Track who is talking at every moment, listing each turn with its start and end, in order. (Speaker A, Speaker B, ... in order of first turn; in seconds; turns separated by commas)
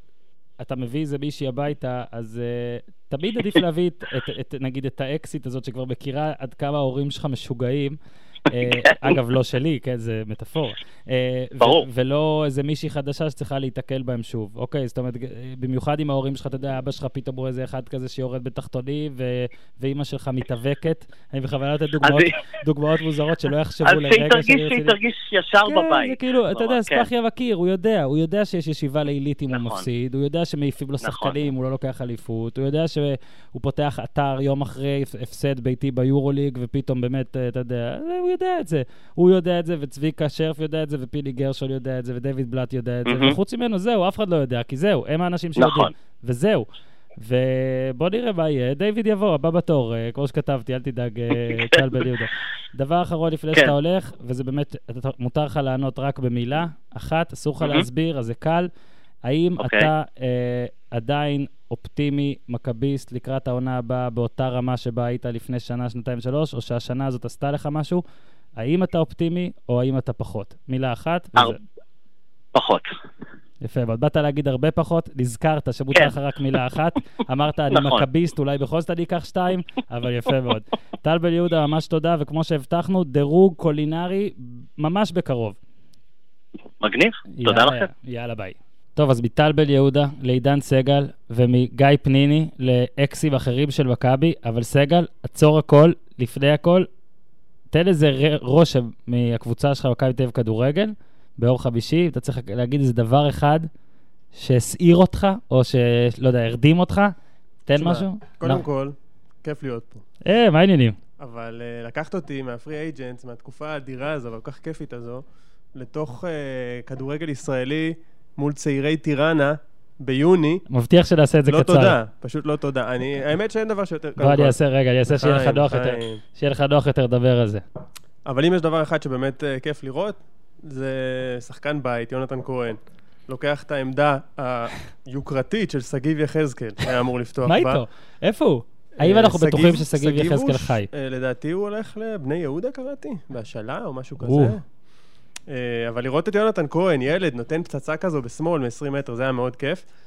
Speaker A: 0.6-24.9, Speaker B: 8.6-8.9, Speaker B: 11.6-11.8, Speaker B: 22.0-22.4, Speaker B: 23.8-27.1, Speaker A: 25.6-58.7, Speaker B: 29.5-29.9, Speaker B: 31.0-31.3, Speaker B: 43.0-43.4, Speaker B: 45.5-45.9, Speaker B: 51.5-52.0, Speaker A: 59.2-68.0, Speaker B: 59.6-59.9, Speaker A: 68.6-71.6, Speaker B: 72.5-72.9, Speaker A: 73.6-85.6, Speaker B: 77.7-78.0, Speaker B: 86.8-87.9, Speaker A: 87.3-96.9, Speaker A: 97.7-103.7, Speaker A: 104.3-107.1, Speaker A: 107.7-108.6, Speaker C: 107.8-110.0, Speaker A: 110.2-111.0, Speaker C: 111.2-115.2, Speaker C: 115.7-120.6, Speaker A: 120.7-122.0, Speaker C: 121.5-124.5, Speaker A: 124.2-127.6, Speaker C: 125.1-126.2, Speaker C: 128.2-137.8, Speaker A: 137.4-140.9, Speaker C: 139.0-144.6, Speaker A: 144.2-144.6, Speaker C: 145.5-149.8